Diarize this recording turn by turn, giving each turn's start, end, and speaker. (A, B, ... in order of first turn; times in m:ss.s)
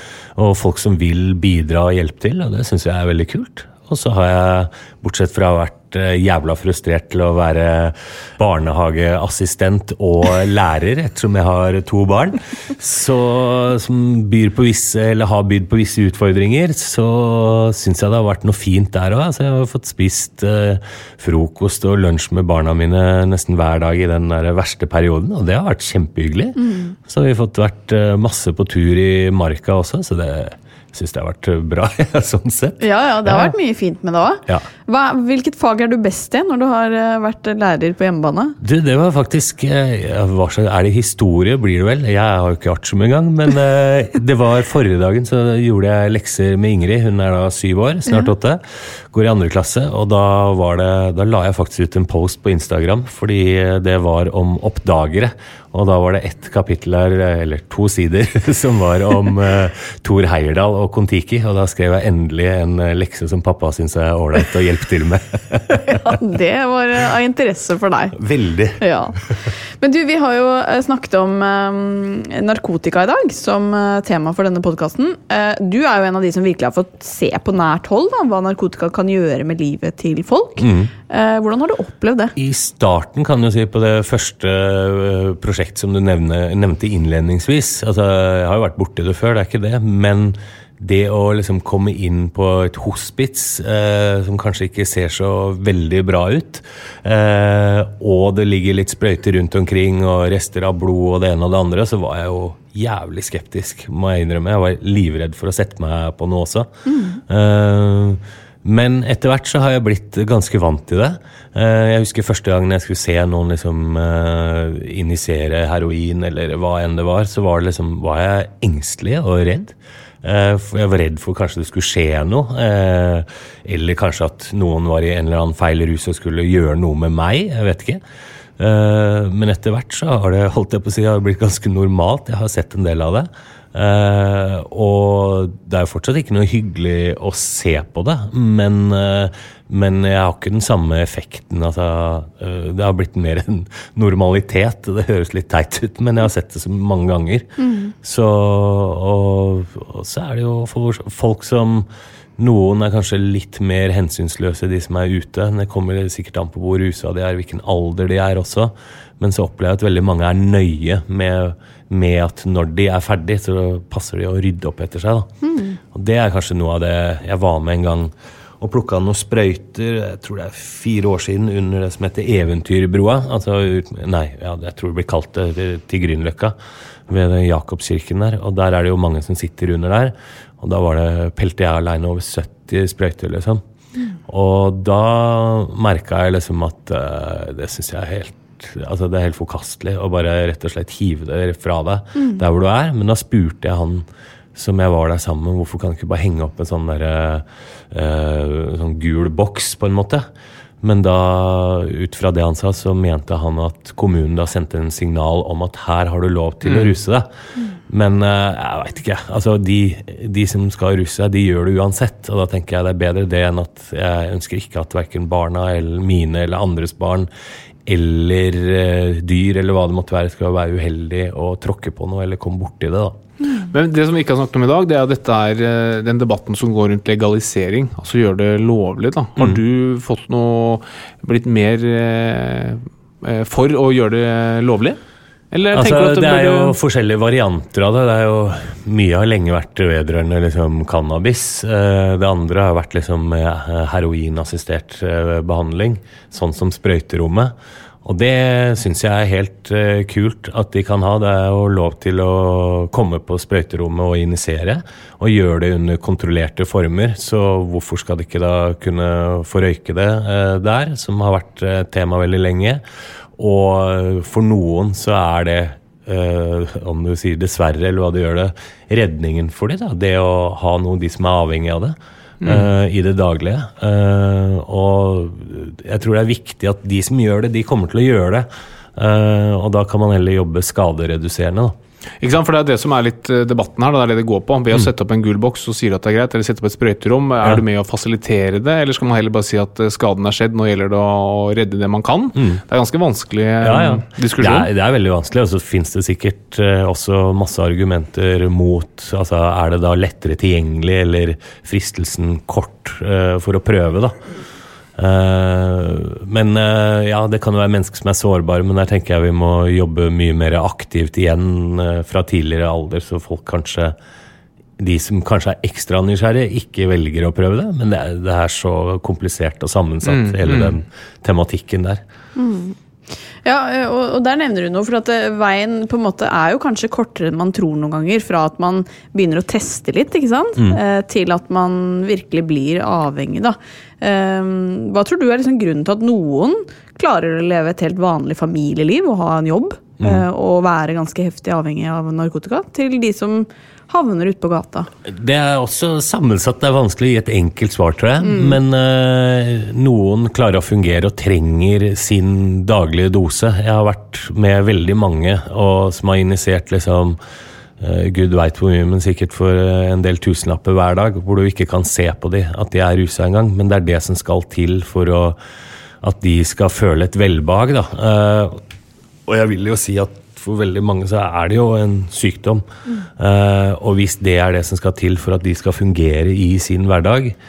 0:00.4-0:33.5 A
0:26.6-0:27.0 B
0:32.8-0:38.6 B
0:38.6-1:06.0 A
1:05.7-1:08.2 B
1:08.1-1:08.8 A
1:08.8-1:22.4 B
1:20.6-1:20.9 A
1:22.4-1:46.7 A
1:46.9-1:47.2 B
1:47.3-2:08.0 A
2:08.6-2:31.9 A
2:27.6-2:27.9 B
2:32.4-2:45.3 A
2:45.4-2:45.8 B
2:45.9-2:56.6 A
2:57.1-3:03.6 A
3:04.3-3:20.3 A
3:12.2-3:12.4 B
3:20.8-3:27.3 A
3:26.7-3:26.9 C
3:27.9-3:37.3 A
3:37.9-3:43.2 A
3:43.7-3:55.0 C
3:55.5-3:56.8 C
3:55.7-4:22.8 A
4:23.4-4:41.8 A
4:32.4-4:32.7 C
4:42.2-4:54.7 C
4:53.6-5:04.3 A
5:05.0-5:14.0 A
5:14.8-5:22.0 A
5:20.0-5:20.8 C
5:22.4-5:22.7 B
5:23.4-5:44.9 B
5:45.1-5:57.2 A
5:48.2-5:48.6 B
5:57.8-6:05.4 A
6:06.0-6:08.6 A
6:09.3-6:12.6 A
6:13.2-6:17.4 A